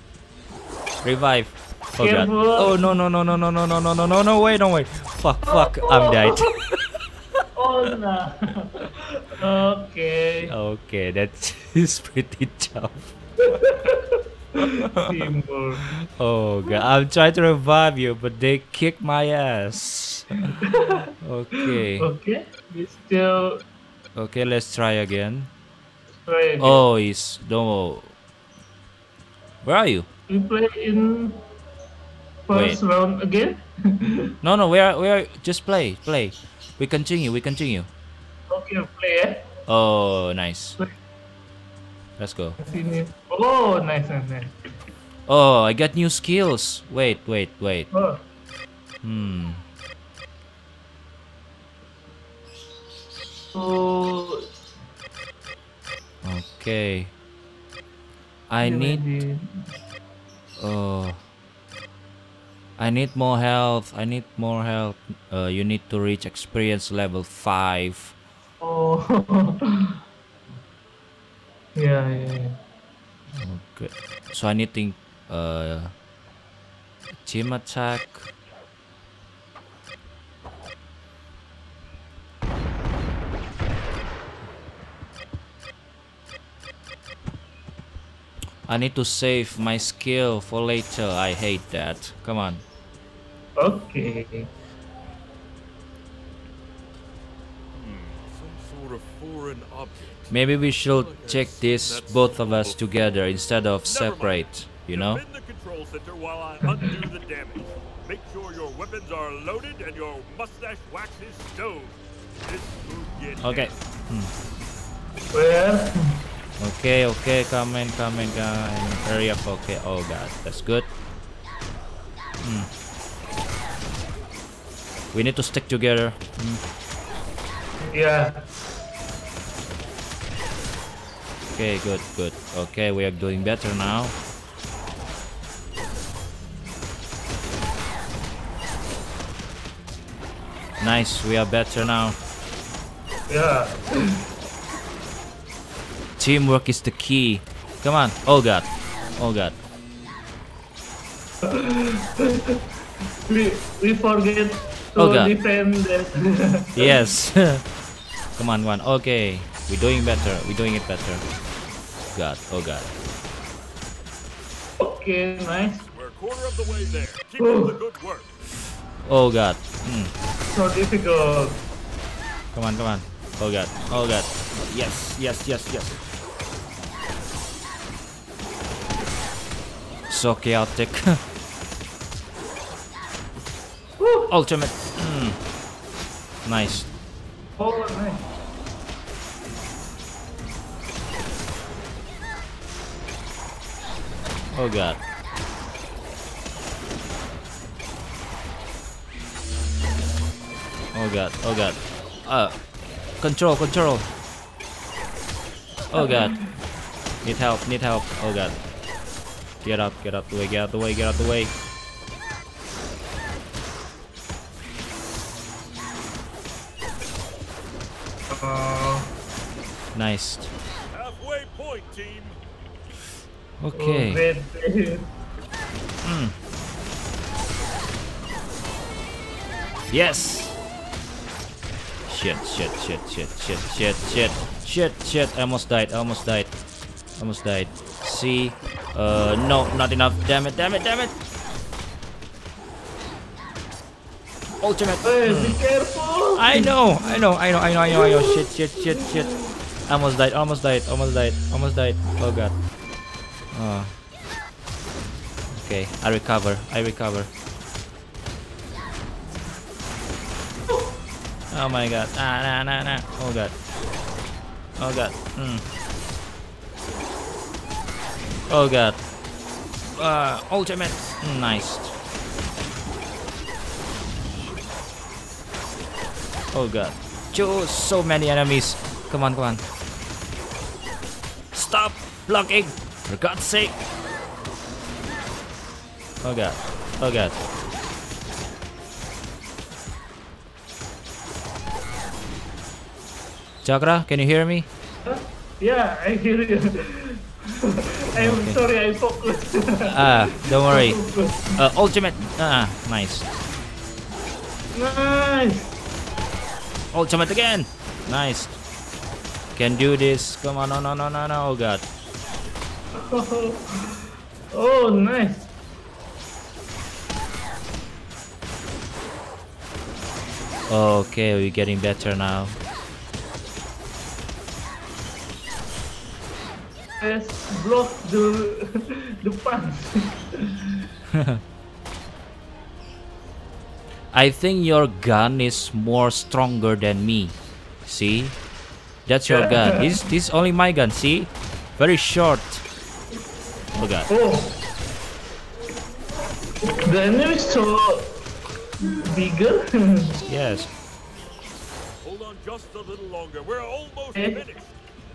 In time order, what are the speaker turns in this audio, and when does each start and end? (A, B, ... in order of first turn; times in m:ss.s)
0:01.0-0:07.4 A
0:02.0-0:02.9 B
0:05.4-0:06.5 B
0:07.5-0:10.5 B
0:10.4-0:13.1 A
0:13.4-0:16.0 B
0:14.8-0:15.1 A
0:15.9-0:20.6 A
0:20.5-0:23.6 B
0:21.2-0:22.1 A
0:24.2-0:25.5 A
0:26.2-0:26.8 B
0:26.6-0:28.1 A
0:29.6-0:30.1 A
0:30.3-0:31.4 B
0:32.5-0:34.3 B
0:32.5-0:32.8 A
0:34.4-0:37.9 A
0:38.5-0:39.5 B
0:39.7-0:40.8 A
0:42.2-0:42.6 A
0:42.6-0:44.5 B
0:45.3-0:47.9 A
0:47.9-0:48.2 B
0:49.0-0:49.6 A
0:53.5-0:54.4 B
0:56.2-0:57.1 A
0:58.5-0:59.0 A
0:58.6-0:59.4 B
1:00.6-1:01.2 A
1:02.8-1:08.1 A
1:08.6-1:10.0 B
1:11.8-1:12.6 B
1:13.3-1:15.9 A
1:17.2-1:18.3 A
1:28.7-1:32.6 A
1:33.6-1:34.5 B
1:37.7-1:40.3 C
1:40.3-1:45.2 A
1:40.9-1:42.9 C
1:43.8-1:53.8 C
1:53.4-1:54.3 A
1:55.3-1:56.2 B
1:56.6-2:00.9 A
2:02.4-2:02.7 A
2:05.1-2:06.6 A
2:07.9-2:08.4 B
2:11.5-2:14.1 A
2:20.8-2:22.2 A
2:23.3-2:24.2 B
2:26.2-2:29.6 A
2:31.4-2:32.6 B
2:33.3-2:37.0 B
2:35.0-2:35.3 A
2:36.8-2:37.6 A
2:38.4-2:41.2 A
2:42.1-2:43.0 A
2:44.8-2:45.8 B
2:45.8-2:48.4 C
2:47.4-2:47.7 B
2:49.0-2:50.1 A
2:50.5-2:51.6 B
2:52.5-2:56.0 A
3:00.1-3:01.2 A
3:04.0-3:04.3 B
3:04.3-3:05.4 A
3:06.4-3:06.9 A
3:07.6-3:08.2 B
3:14.5-3:15.0 A
3:20.9-3:22.5 A
3:23.2-3:24.0 A
3:25.9-3:26.4 B
3:25.9-3:26.4 A
3:27.2-3:28.6 A
3:29.6-3:31.5 A
3:38.3-3:39.1 B
3:39.9-3:40.5 A
3:40.9-3:42.4 C
3:43.6-3:44.2 A
3:43.7-3:45.1 B
3:46.0-3:46.3 A
3:49.9-3:50.6 A
3:52.0-3:56.5 A
3:57.2-4:01.1 A
4:04.6-4:05.6 A
4:05.0-4:07.2 B
4:06.4-4:09.3 A
4:07.9-4:09.5 B
4:09.9-4:12.5 A
4:13.5-4:13.9 A
4:15.5-4:17.3 A
4:21.5-4:23.5 A
4:24.8-4:25.6 A
4:28.5-4:29.0 A
4:30.0-4:31.9 A
4:36.5-4:39.6 A
4:41.5-4:43.8 A
4:46.2-4:47.4 A
4:53.6-4:54.7 A
4:55.0-5:01.6 B
4:58.2-4:58.6 A
4:59.8-5:01.0 A
5:01.6-5:03.3 A
5:04.7-5:05.7 B
5:06.9-5:08.6 A
5:09.5-5:11.9 A
5:12.9-5:15.5 B
5:20.7-5:22.5 A
5:27.0-5:30.7 B
5:31.1-5:31.4 A
5:34.1-5:37.3 A
5:37.8-5:38.4 A
5:39.1-5:42.6 A
5:39.3-5:40.0 B
5:43.7-5:44.1 A
5:44.1-5:44.6 B
5:46.6-5:48.2 B
5:48.8-5:50.2 B
5:50.3-5:50.7 A
5:52.0-5:54.8 C
5:54.1-5:54.4 B